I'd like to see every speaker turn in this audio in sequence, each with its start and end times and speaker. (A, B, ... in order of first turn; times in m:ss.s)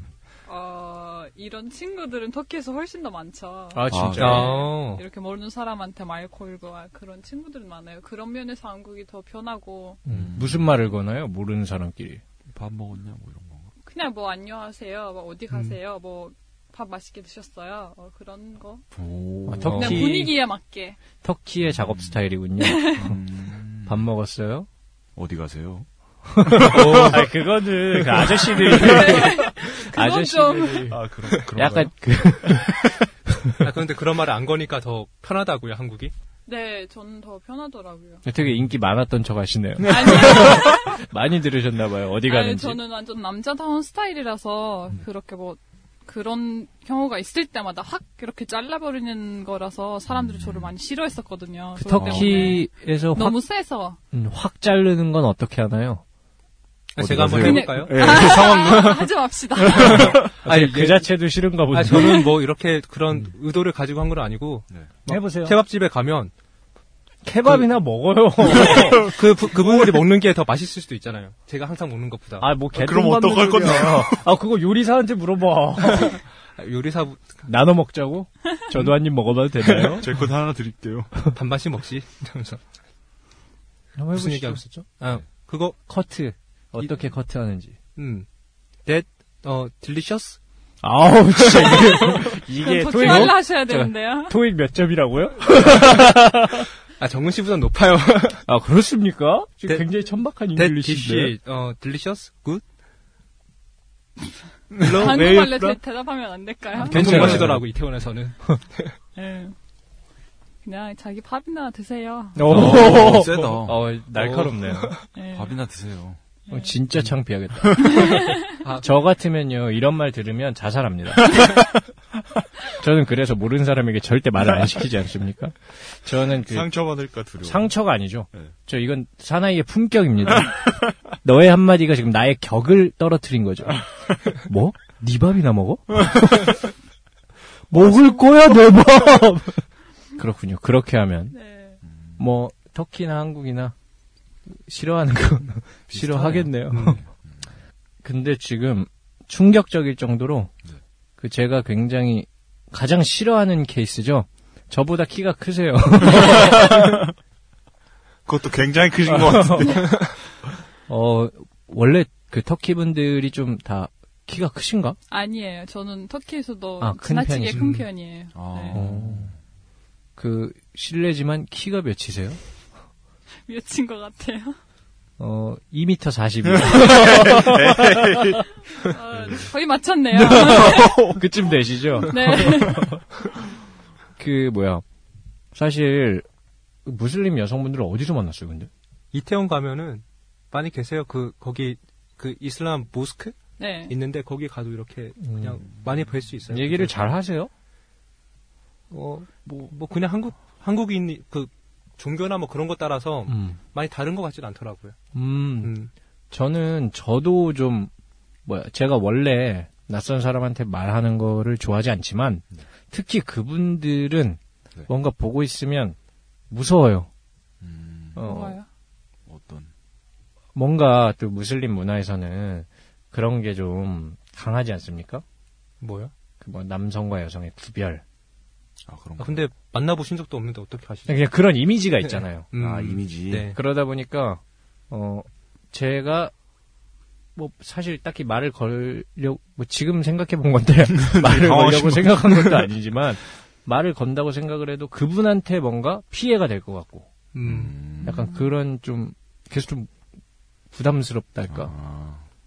0:00.5-0:10.0 A
0:03.7-0:04.5 B
0:03.9-0:04.5 C
0:04.2-0:05.0 D
0:10.0-0:12.2 B
0:10.1-0:10.8 C
0:12.5-0:13.7 C
0:13.8-0:18.8 A
0:15.5-0:15.8 D
0:18.9-0:19.9 C
0:19.4-0:20.4 B
0:19.6-0:20.0 D
0:19.7-0:21.0 A
0:21.2-0:23.2 B
0:21.6-0:22.2 C
0:22.6-0:23.1 A
0:23.0-0:24.0 C
0:23.8-0:24.7 B
0:25.2-0:27.2 C
0:26.3-0:33.6 B
0:26.6-0:27.3 D
0:28.6-0:30.9 A
0:30.8-0:31.9 C
0:31.3-0:31.8 D
0:33.6-0:36.1 D
0:36.4-0:38.2 A
0:38.2-0:42.8 B
0:39.8-0:41.0 A
0:42.2-0:54.0 A
0:50.1-0:50.7 C
0:51.8-0:53.4 B
0:52.0-0:52.6 C
0:54.1-0:56.0 B
0:56.9-0:58.4 D
0:57.0-1:00.3 C
0:57.4-1:00.2 A
0:59.9-1:02.3 B
1:00.0-1:01.1 D
1:01.7-1:06.3 D
1:05.1-1:05.6 B
1:07.2-1:10.0 B
1:08.4-1:12.5 D
1:12.4-1:16.2 B
1:12.7-1:14.3 C
1:16.6-1:17.4 D
1:17.5-1:20.1 B
1:19.6-1:21.2 C
1:21.3-1:22.6 D
1:24.0-1:24.6 B
1:24.1-1:25.8 D
1:25.9-1:27.8 B
1:28.0-1:28.3 D
1:28.9-1:30.4 D
1:30.8-1:36.7 B
1:31.4-1:32.2 D
1:32.6-1:34.4 A
1:33.0-1:33.3 D
1:37.0-1:38.4 D
1:38.4-1:41.3 B
1:40.5-1:42.6 D
1:44.7-1:45.8 D
1:44.8-1:47.5 A
1:46.8-1:47.6 B
1:46.8-1:49.0 D
1:47.1-1:47.5 C
1:49.2-1:49.5 A
1:50.6-1:52.5 A
1:52.4-1:54.9 B
1:52.4-1:53.8 C
1:52.5-1:55.1 D
1:55.1-1:55.5 A
1:55.3-1:56.2 C
1:56.5-1:56.7 A
1:56.5-2:01.7 B
1:57.8-1:58.6 A
2:02.6-2:06.7 B
2:06.4-2:07.7 C
2:07.4-2:16.6 B
2:17.7-2:19.6 B
2:20.1-2:21.4 B
2:21.3-2:21.8 A
2:21.8-2:22.2 C
2:22.2-2:23.7 B
2:24.5-2:27.0 B
2:25.9-2:27.3 C
2:26.3-2:27.0 D
2:28.0-2:30.5 B
2:31.2-2:37.1 B
2:36.4-2:37.0 C
2:38.2-2:40.1 C
2:39.0-2:39.9 B
2:40.9-2:45.0 B
2:45.1-2:48.8 A
2:46.8-2:47.6 B
2:47.5-2:47.8 D
2:48.4-2:49.4 C
2:48.7-2:49.3 B
2:50.2-2:52.4 B
2:53.5-2:54.6 A
2:55.2-2:58.4 B
2:56.5-2:58.5 C
2:58.8-3:01.1 A
2:59.2-2:59.4 C
3:00.1-3:01.3 C
3:00.2-3:03.0 B
3:02.0-3:02.9 A
3:04.2-3:04.8 B
3:05.5-3:06.2 B
3:06.8-3:08.7 B
3:09.1-3:13.4 D
3:13.6-3:13.9 A
3:13.9-3:17.1 D
3:15.2-3:15.6 B
3:16.5-3:17.5 B
3:18.9-3:25.0 D
3:23.3-3:23.6 B
3:25.1-3:25.7 B
3:25.6-3:25.9 D
3:26.3-3:27.9 B
3:28.4-3:36.0 B
3:36.5-3:37.1 B
3:37.6-3:38.3 C
3:38.2-3:38.6 B
3:38.2-3:38.7 A
3:39.2-3:39.7 C
3:40.5-3:45.2 B
3:45.8-3:46.1 D
3:46.4-3:48.0 B
3:48.9-3:49.4 C
3:49.2-3:51.3 D
3:51.1-3:52.5 B
3:52.5-3:53.6 D
3:52.6-3:53.5 C
3:53.4-3:56.3 B
3:57.4-4:07.1 B
4:01.0-4:02.7 C
4:07.3-4:07.8 D
4:07.4-4:08.4 C
4:08.0-4:09.9 B
4:10.7-4:11.7 B
4:11.5-4:12.2 C